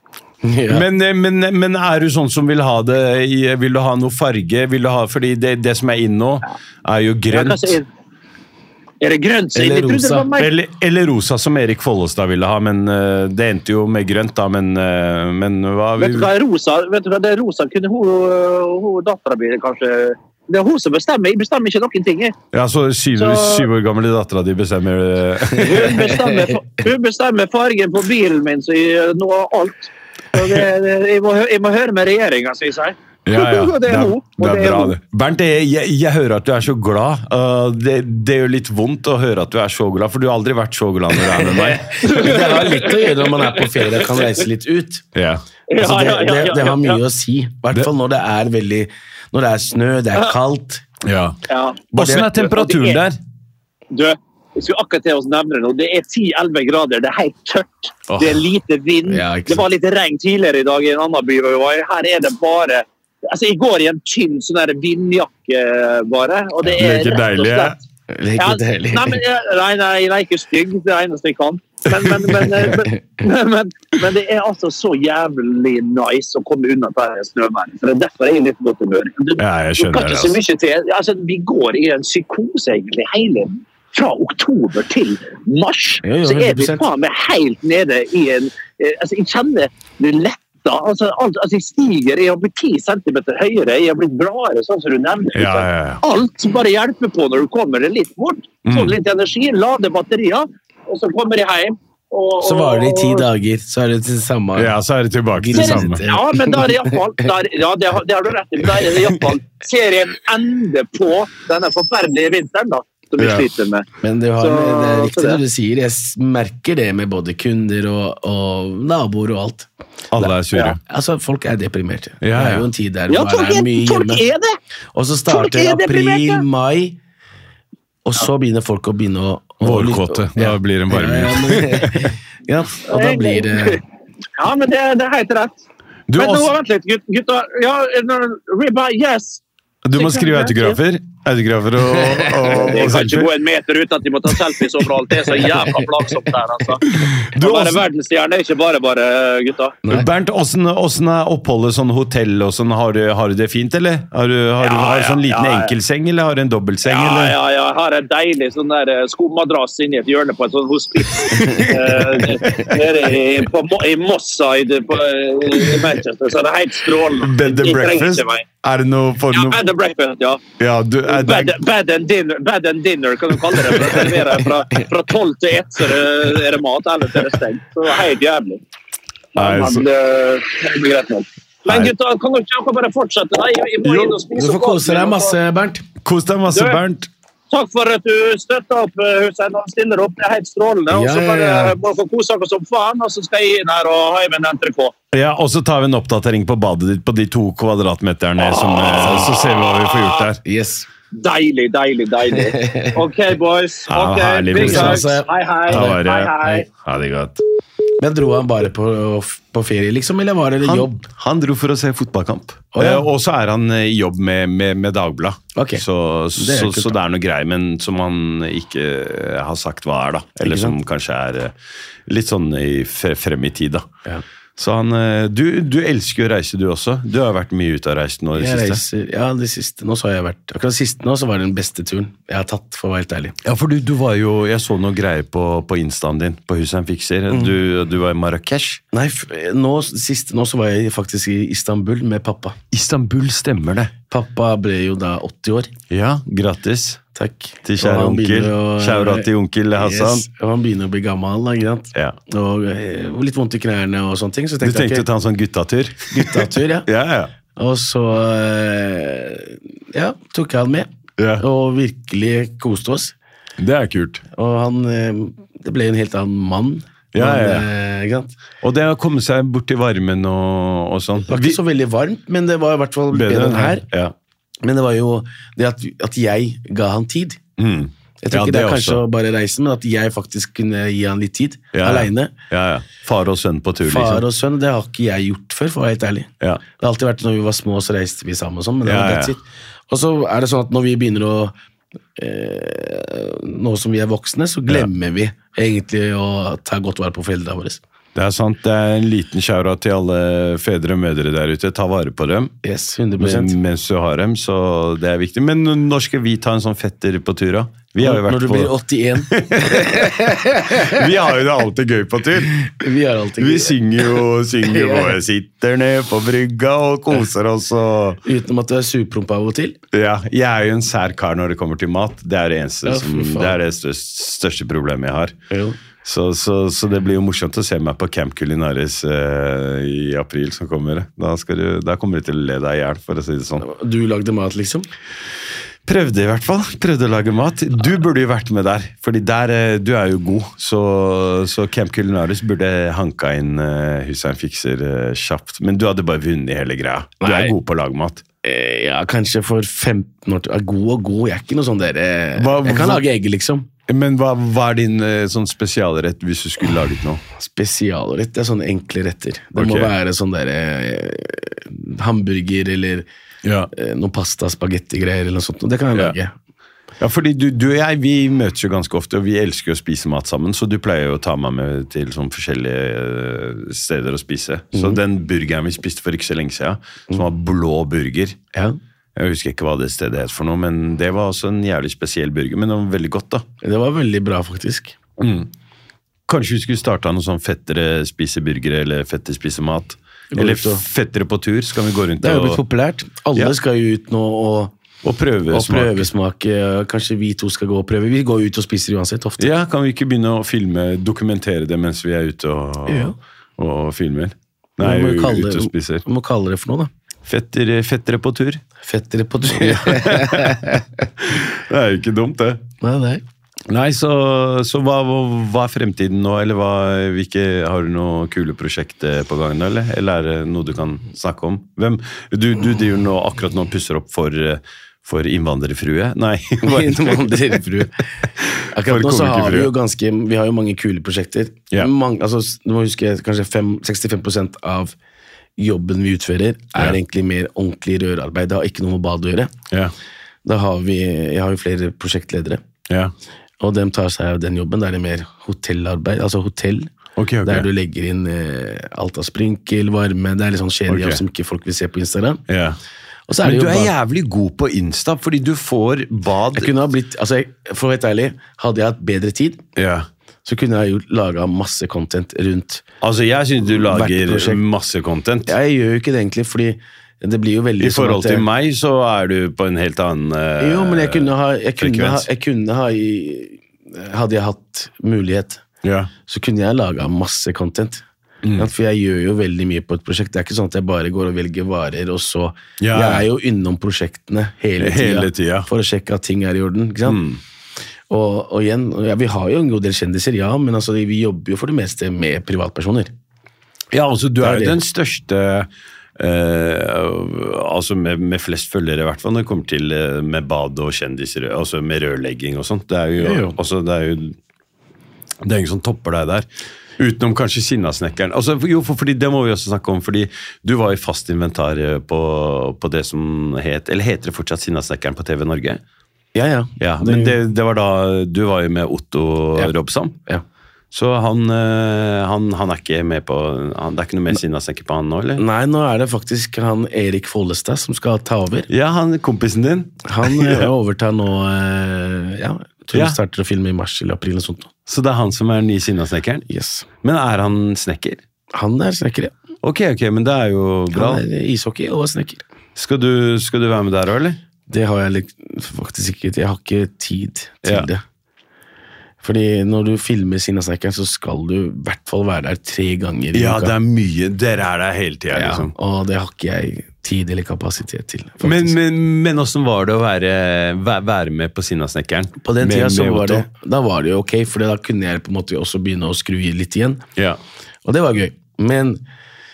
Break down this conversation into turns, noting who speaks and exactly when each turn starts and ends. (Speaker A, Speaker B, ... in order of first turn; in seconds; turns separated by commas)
Speaker A: 0.4-0.8, Speaker B: 0.7-7.8, Speaker C: 7.3-7.9, Speaker C: 9.0-10.5, Speaker A: 9.5-10.3, Speaker B: 10.3-16.3, Speaker C: 16.0-22.4, Speaker B: 22.5-26.1, Speaker C: 23.2-23.7, Speaker C: 25.6-35.0, Speaker B: 33.2-41.9, Speaker A: 41.5-45.0, Speaker C: 42.0-44.2, Speaker B: 45.1-45.4, Speaker C: 45.7-47.0, Speaker A: 45.8-50.8, Speaker B: 51.0-51.4, Speaker C: 51.5-53.0, Speaker B: 51.9-53.2, Speaker A: 51.9-52.3, Speaker C: 53.9-67.8, Speaker B: 58.1-58.4, Speaker A: 59.1-59.6, Speaker B: 66.6-67.8, Speaker A: 68.1-69.2, Speaker C: 68.4-103.3, Speaker B: 71.9-72.6, Speaker B: 79.4-80.4, Speaker A: 86.0-86.8, Speaker B: 95.3-96.0, Speaker B: 98.6-99.0, Speaker A: 102.4-104.8, Speaker B: 104.5-106.0, Speaker A: 105.3-107.0, Speaker C: 105.5-113.9, Speaker B: 113.2-113.5, Speaker A: 114.0-124.2, Speaker C: 114.4-115.4, Speaker B: 120.1-120.8, Speaker B: 122.2-122.7, Speaker C: 123.1-124.6, Speaker A: 124.9-127.0, Speaker C: 125.3-126.4, Speaker A: 128.0-133.8, Speaker B: 129.6-132.1, Speaker C: 132.9-133.8, Speaker C: 134.4-135.6, Speaker B: 136.1-136.5, Speaker C: 136.2-139.4, Speaker B: 139.8-143.3, Speaker C: 139.9-140.8, Speaker C: 142.5-149.8, Speaker B: 147.0-147.8, Speaker A: 149.8-150.1, Speaker B: 149.9-157.4, Speaker C: 154.6-155.7, Speaker C: 156.8-168.4, Speaker B: 161.2-162.8, Speaker B: 167.2-169.6, Speaker C: 169.3-170.4, Speaker B: 170.6-171.5, Speaker C: 171.1-178.6, Speaker B: 173.7-174.0, Speaker C: 179.3-185.3, Speaker B: 179.3-179.8, Speaker B: 181.7-181.9, Speaker B: 183.8-184.1, Speaker A: 184.3-185.8, Speaker B: 186.0-187.1, Speaker C: 186.5-186.8, Speaker C: 187.5-194.9, Speaker A: 190.9-191.8, Speaker B: 195.1-200.4, Speaker C: 198.4-200.3, Speaker A: 200.4-200.9, Speaker C: 201.1-206.7, Speaker A: 202.4-202.9, Speaker B: 203.9-205.2, Speaker A: 204.5-206.0, Speaker B: 205.7-207.4, Speaker A: 208.0-211.0, Speaker B: 210.6-221.5, Speaker A: 212.7-213.1, Speaker A: 215.5-215.8, Speaker A: 216.3-217.0, Speaker A: 220.4-220.8, Speaker B: 222.1-223.9, Speaker B: 224.6-228.8, Speaker A: 228.3-233.3, Speaker B: 233.4-238.8, Speaker A: 238.9-242.6, Speaker B: 242.7-243.9, Speaker A: 244.1-245.7, Speaker B: 245.9-247.0, Speaker A: 247.1-255.1, Speaker B: 247.6-250.3, Speaker B: 254.6-257.3, Speaker A: 256.1-256.9, Speaker A: 257.6-263.1, Speaker B: 261.2-261.4, Speaker B: 263.6-264.2, Speaker A: 264.3-268.3, Speaker B: 267.1-267.7, Speaker B: 268.6-271.6, Speaker A: 271.3-273.8, Speaker B: 273.1-274.1, Speaker A: 274.6-277.4, Speaker B: 277.6-279.0, Speaker A: 278.2-282.3, Speaker B: 281.7-284.2, Speaker A: 283.8-291.5, Speaker B: 288.8-289.3, Speaker A: 292.1-297.8, Speaker B: 298.1-302.5, Speaker A: 302.6-303.6, Speaker B: 303.2-308.7, Speaker A: 308.0-310.9, Speaker B: 309.3-312.7, Speaker A: 312.6-313.8, Speaker B: 313.4-318.2, Speaker A: 314.7-315.1, Speaker A: 318.2-319.8, Speaker B: 319.9-325.4, Speaker A: 322.8-323.6, Speaker A: 325.5-325.8, Speaker B: 326.0-333.6, Speaker A: 333.6-334.9, Speaker B: 335.8-348.2, Speaker A: 347.2-347.5, Speaker A: 348.4-353.7, Speaker B: 352.4-353.0, Speaker B: 353.9-357.2, Speaker A: 357.4-363.1, Speaker B: 359.5-359.9, Speaker B: 363.4-363.7, Speaker A: 363.7-366.3, Speaker B: 367.0-378.4, Speaker A: 374.7-375.0, Speaker B: 379.1-383.4, Speaker A: 383.6-385.0, Speaker B: 385.2-385.5, Speaker B: 386.3-392.6, Speaker A: 390.3-390.8, Speaker A: 392.2-394.7, Speaker B: 395.0-396.1, Speaker A: 395.5-399.5, Speaker B: 399.4-406.0, Speaker A: 402.9-403.1, Speaker A: 404.8-406.9, Speaker B: 407.2-408.6, Speaker A: 408.8-410.8, Speaker B: 409.5-412.6, Speaker A: 412.8-413.2, Speaker B: 413.7-427.6, Speaker A: 426.6-428.0, Speaker B: 428.4-429.7, Speaker A: 428.7-434.9, Speaker A: 435.6-439.5, Speaker A: 440.4-442.6, Speaker A: 443.6-452.4, Speaker B: 447.1-447.7, Speaker B: 450.9-451.2, Speaker B: 452.5-452.8, Speaker A: 453.3-453.9, Speaker B: 453.4-456.7, Speaker A: 456.6-459.6, Speaker B: 459.8-460.1, Speaker A: 460.4-462.8, Speaker B: 463.0-465.5, Speaker A: 463.7-464.6, Speaker A: 465.5-468.4, Speaker B: 467.8-472.3, Speaker A: 470.6-475.6, Speaker B: 475.8-476.1, Speaker A: 476.2-478.0, Speaker B: 478.4-478.7, Speaker A: 478.6-487.2, Speaker B: 482.8-483.2, Speaker B: 484.8-485.7, Speaker B: 487.0-487.4, Speaker A: 488.1-493.1, Speaker B: 493.9-504.4, Speaker A: 494.4-494.8, Speaker A: 503.2-503.6, Speaker B: 505.4-506.4, Speaker B: 507.0-515.8, Speaker A: 516.3-517.4, Speaker B: 516.8-520.2, Speaker B: 520.9-525.4, Speaker A: 525.4-528.7, Speaker B: 528.7-530.7, Speaker A: 530.0-534.7, Speaker B: 532.9-533.2, Speaker B: 534.9-536.5, Speaker A: 536.5-536.9, Speaker B: 537.0-538.2, Speaker A: 538.5-539.3, Speaker B: 539.6-541.2, Speaker A: 540.9-542.4, Speaker B: 542.8-544.4, Speaker A: 544.7-548.0, Speaker A: 549.2-553.7, Speaker B: 553.3-555.7, Speaker A: 555.3-558.8, Speaker B: 558.4-563.5, Speaker A: 562.4-567.0, Speaker A: 567.8-569.0